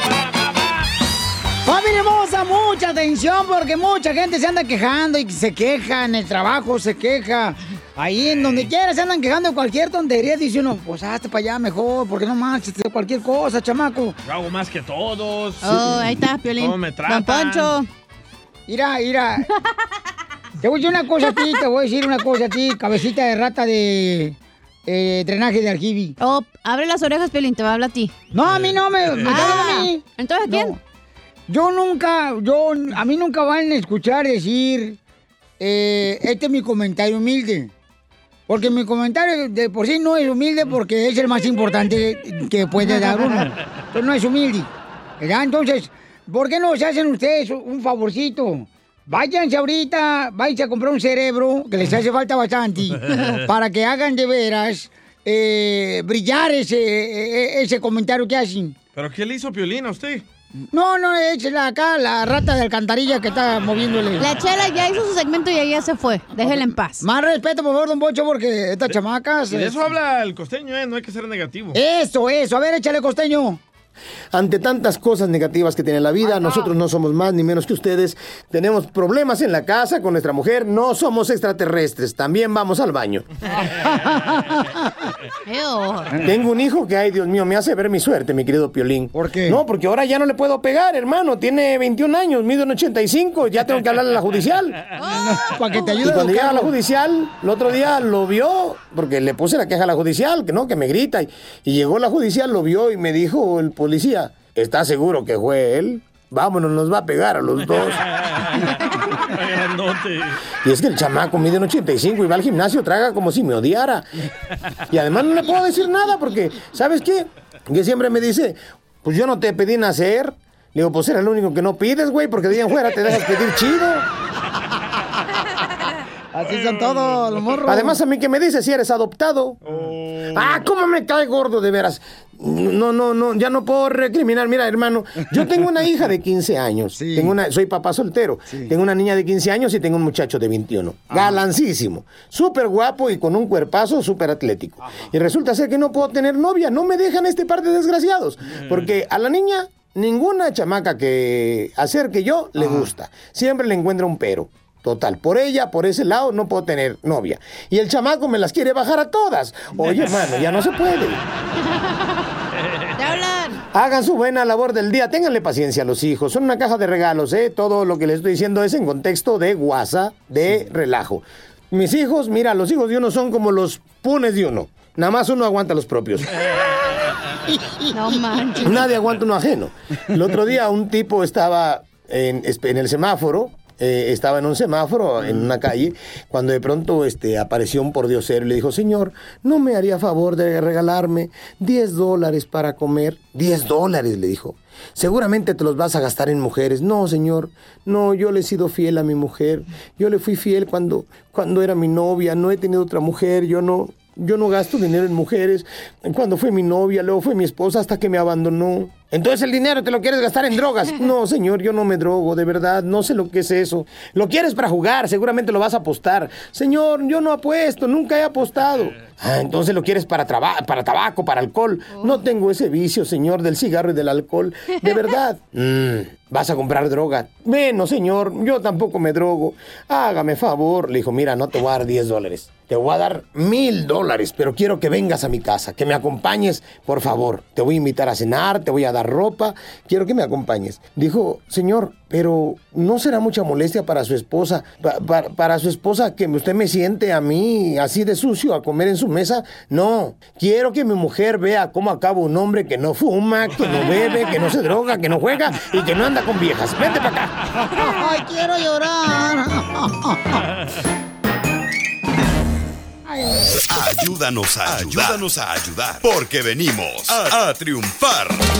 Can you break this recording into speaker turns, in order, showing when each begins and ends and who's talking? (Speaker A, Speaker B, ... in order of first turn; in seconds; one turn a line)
Speaker A: 1.6-14.2
Speaker B: 14.2-17.7
Speaker C: 15.6-17.9
Speaker A: 18.7-19.5
Speaker A: 20.6-26.1
Speaker C: 21.3-21.5
Speaker C: 26.2-28.1
Speaker A: 28.3-30.8
Speaker B: 28.5-29.1
Speaker C: 29.2-30.8
Speaker A: 31.5-35.0
Speaker A: 35.6-37.7
Speaker A: 38.5-58.8
Speaker B: 58.9-60.2
Speaker A: 60.7-64.3
Speaker C: 64.2-67.0
Speaker A: 66.4-69.8
Speaker B: 69.5-71.8
Speaker A: 71.7-73.6
Speaker D: 74.3-83.2
Speaker A: 83.8-84.8
Speaker C: 85.5-86.2
Speaker D: 86.2-94.8
Speaker A: 89.2-89.6
Speaker C: 94.9-96.1
Speaker A: 95.1-96.7
Speaker D: 96.0-108.0
Speaker B: 108.1-110.4
Speaker D: 110.6-114.1
Speaker D: 114.9-124.0
Speaker A: 126.3-128.0
Speaker B: 126.5-127.5
Speaker D: 127.7-129.6
Speaker B: 129.6-130.6
Speaker D: 130.3-161.2
Speaker A: 136.9-137.3
Speaker A: 152.6-152.9
Speaker C: 162.9-163.6
Speaker D: 163.7-176.3
Speaker C: 177.9-178.8
Speaker D: 178.6-257.3
Speaker C: 221.9-222.2
Speaker C: 224.8-225.1
Speaker A: 257.7-260.4
Speaker A: 263.1-263.4
Speaker E: 263.7-268.4